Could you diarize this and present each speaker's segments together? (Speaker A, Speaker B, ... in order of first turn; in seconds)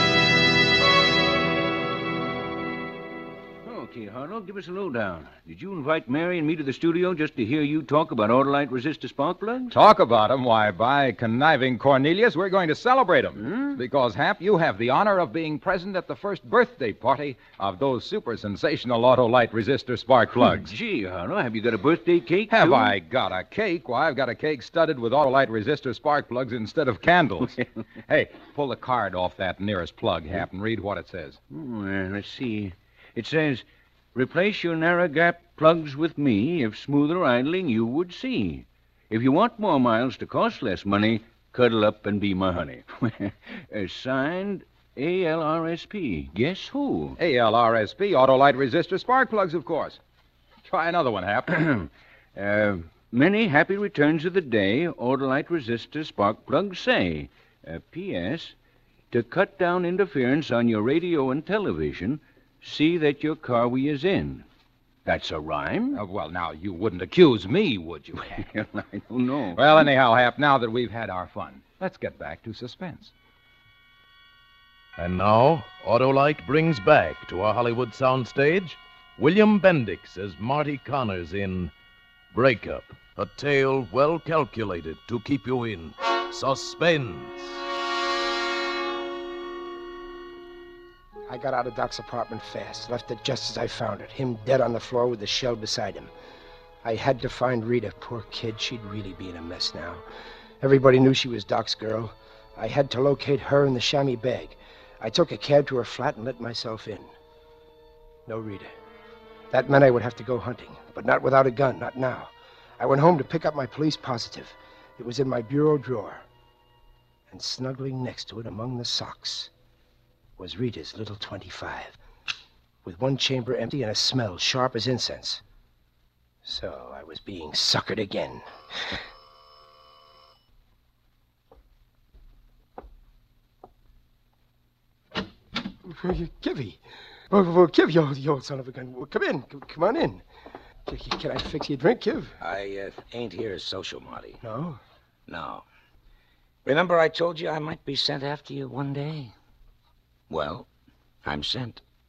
Speaker A: 3.6-9.8, 13.4-13.8, 20.4-23.0, 31.5-47.2, 51.5-58.5, 59.1-64.5, 65.1-66.0, 68.2-69.6
Speaker B: 9.7-20.7, 22.5-31.4, 47.2-50.0, 50.7-51.6, 65.9-68.5, 69.5-73.1
Speaker C: 75.0-81.7, 82.3-87.6
Speaker D: 91.3-96.1, 96.8-100.0, 100.6-107.1, 108.3-108.7, 109.5-116.2, 117.3-119.5, 120.4-122.0, 122.8-125.4, 126.4-129.0, 135.8-140.2, 140.9-142.4, 144.4-144.8
Speaker E: 142.4-144.4, 145.3-145.6, 146.7-149.3, 150.3-150.7, 151.2-151.8